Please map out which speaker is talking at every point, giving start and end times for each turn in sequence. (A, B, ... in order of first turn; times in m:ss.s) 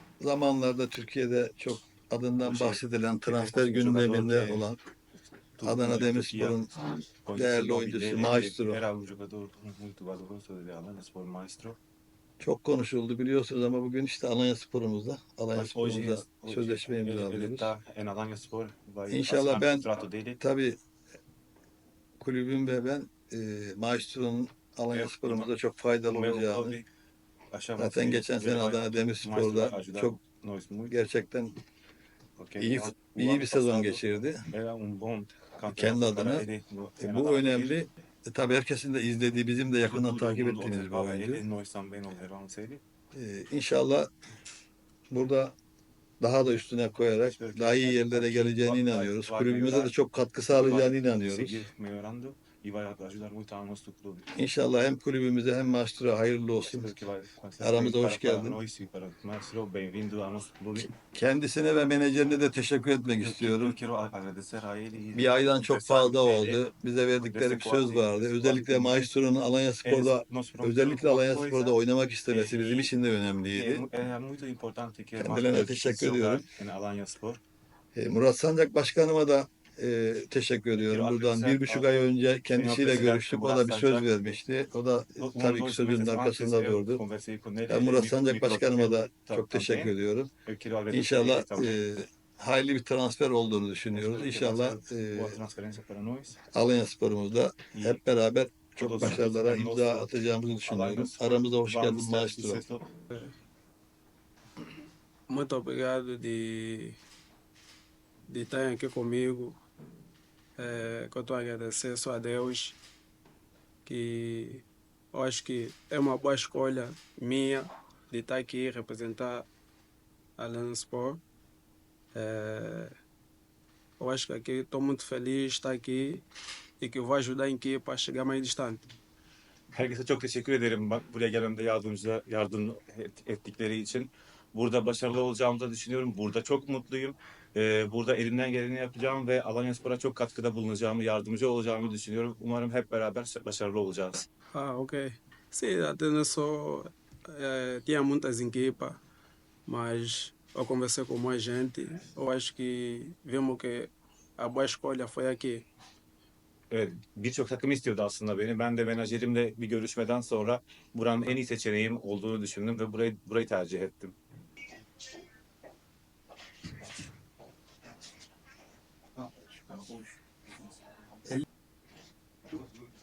0:00.2-0:04.8 A
0:02.4-0:04.7 B
0:05.6-0:06.6 B
0:05.6-0:08.8 A
0:07.2-0:11.8 B
0:12.4-0:17.7 A
0:15.5-0:20.4 B
0:19.1-0:19.9 A
0:20.4-0:20.8 A
0:22.2-0:26.8 A
0:24.9-0:25.5 B
0:26.1-0:26.9 B
0:27.5-0:31.0 B
0:27.8-0:30.2 A
0:30.9-0:31.5 A
0:32.4-0:37.8 B
0:32.6-0:34.4 A
0:35.7-0:36.5 A
0:37.0-0:41.4 A
0:39.8-0:42.8 B
0:43.1-0:44.1 A
0:45.1-0:45.6 A
0:46.2-0:51.7 A
0:47.2-0:49.9 B
0:50.5-0:54.3 B
0:54.3-0:56.9 A
0:56.6-1:00.9 B
0:57.6-0:58.6 A
1:00.9-1:03.8 A
1:03.2-1:06.6 B
1:05.1-1:13.9 A
1:07.2-1:09.1 B
1:09.8-1:12.9 B
1:13.5-1:17.4 B
1:15.2-1:16.4 A
1:17.9-1:27.0 A
1:20.7-1:21.9 B
1:22.5-1:24.4 B
1:25.2-1:29.9 B
1:27.7-1:30.3 A
1:30.4-1:31.8 B
1:30.9-1:35.4 A
1:33.9-1:36.4 B
1:36.5-1:42.6 A
1:37.7-1:38.0 B
1:38.8-1:42.9 B
1:45.3-1:47.0 C
1:48.3-1:49.6 C
1:50.6-1:52.8 C
1:53.8-1:59.5 C
2:00.4-2:01.2 C
2:02.1-2:02.9 C
2:04.0-2:06.2 C
2:06.8-2:08.8 C
2:09.7-2:24.2 B
2:24.5-2:29.0 C
2:29.6-2:35.6 C
2:36.7-2:44.2 B
2:49.7-2:50.0 A